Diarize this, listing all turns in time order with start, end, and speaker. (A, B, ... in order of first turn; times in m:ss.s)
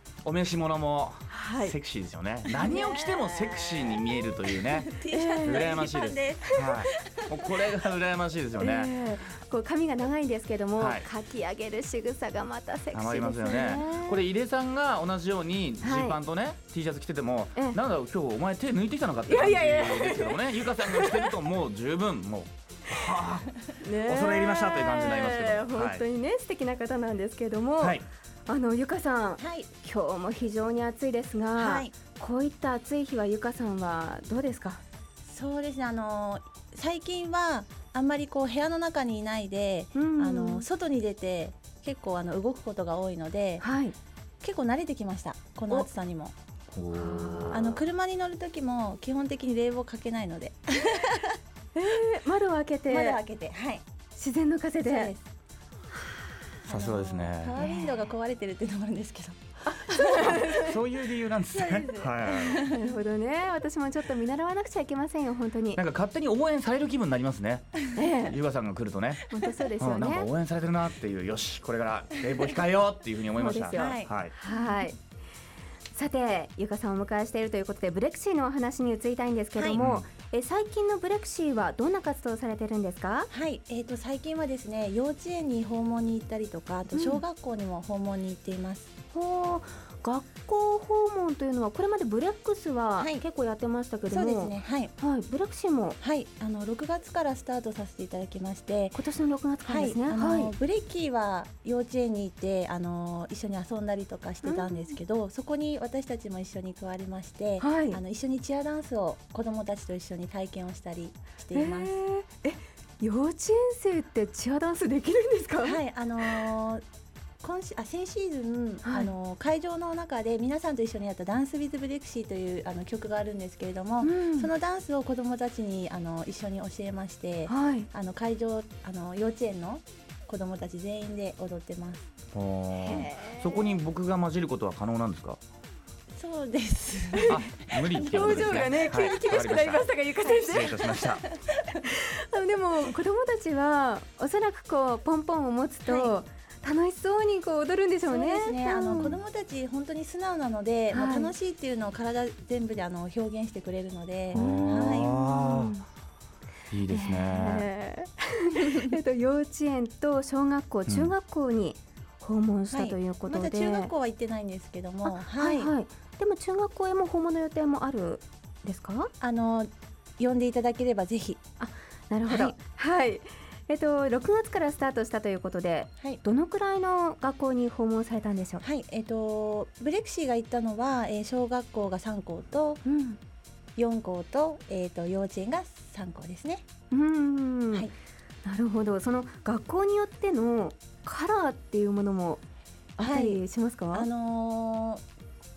0:00.2-0:04.9 A
0:01.3-0:01.7 B
0:02.6-0:04.0 B
0:04.7-0:07.7 C
0:05.0-0:05.8 B
0:05.4-0:08.9 A
0:08.6-0:14.2 B
0:10.8-0:11.0 A
0:12.9-0:26.0 A
0:15.8-0:16.2 B
0:19.3-0:21.3 B
0:23.8-0:34.8 B
0:27.8-0:28.0 A
0:29.4-0:29.7 C
0:31.6-0:31.9 C
0:35.2-0:43.6 C
0:39.9-0:40.6 B
0:43.6-0:43.9 B
0:44.4-0:46.3 C
0:46.7-0:47.8 A
0:46.9-0:47.6 B
0:47.5-0:51.4 C
0:51.7-0:53.2 B
0:52.9-0:53.8 C
0:54.1-0:55.1 B
0:54.8-0:55.2 C
0:56.6-0:57.6 A
0:56.7-1:00.4 C
0:57.6-0:58.1 B
0:59.7-1:00.7 B
1:00.5-1:02.6 A
1:01.5-1:02.8 C
1:02.6-1:05.8 B
1:05.7-1:09.2 A
1:07.9-1:08.3 B
1:09.3-1:10.3 B
1:09.8-1:14.3 A
1:13.4-1:15.0 B
1:13.7-1:14.2 C
1:15.9-1:23.3 B
1:19.8-1:20.1 A
1:23.3-1:28.9 C
1:26.9-1:27.2 B
1:29.1-1:36.0 B
1:34.1-1:34.9 C
1:36.0-1:39.0 C
1:38.9-1:40.5 B
1:39.6-1:52.0 C
1:44.4-1:45.0 B
1:47.6-1:48.0 B
1:51.5-1:56.4 B
1:55.6-1:56.8 C
1:57.4-2:12.1 C
1:58.8-1:59.1 B
2:04.0-2:04.5 B
2:07.5-2:07.9 B
2:12.3-2:15.4 A
2:12.8-2:13.7 B
2:16.1-2:18.7 C
2:17.1-2:17.4 B
2:17.3-2:21.3 A
2:18.0-2:20.9 B
2:20.5-2:21.8 C
2:21.7-2:29.2 B
2:25.8-2:26.1 C
2:28.0-2:35.1 C
2:30.9-2:31.3 B
2:34.3-2:35.7 A
2:34.3-2:35.8 B
2:36.7-2:37.7 A
2:36.9-2:43.9 B
2:38.6-2:38.9 C
2:40.9-2:41.1 A
2:42.7-2:45.7 C
2:45.0-2:49.1 B
2:49.2-2:51.4 C
2:51.6-2:58.6 B
2:52.2-2:52.6 C
2:58.6-3:02.8 C
3:02.8-3:03.2 B
3:03.8-3:06.6 C
3:06.9-3:07.9 B
3:08.4-3:12.4 B
3:13.0-3:14.1 B
3:13.0-3:15.0 C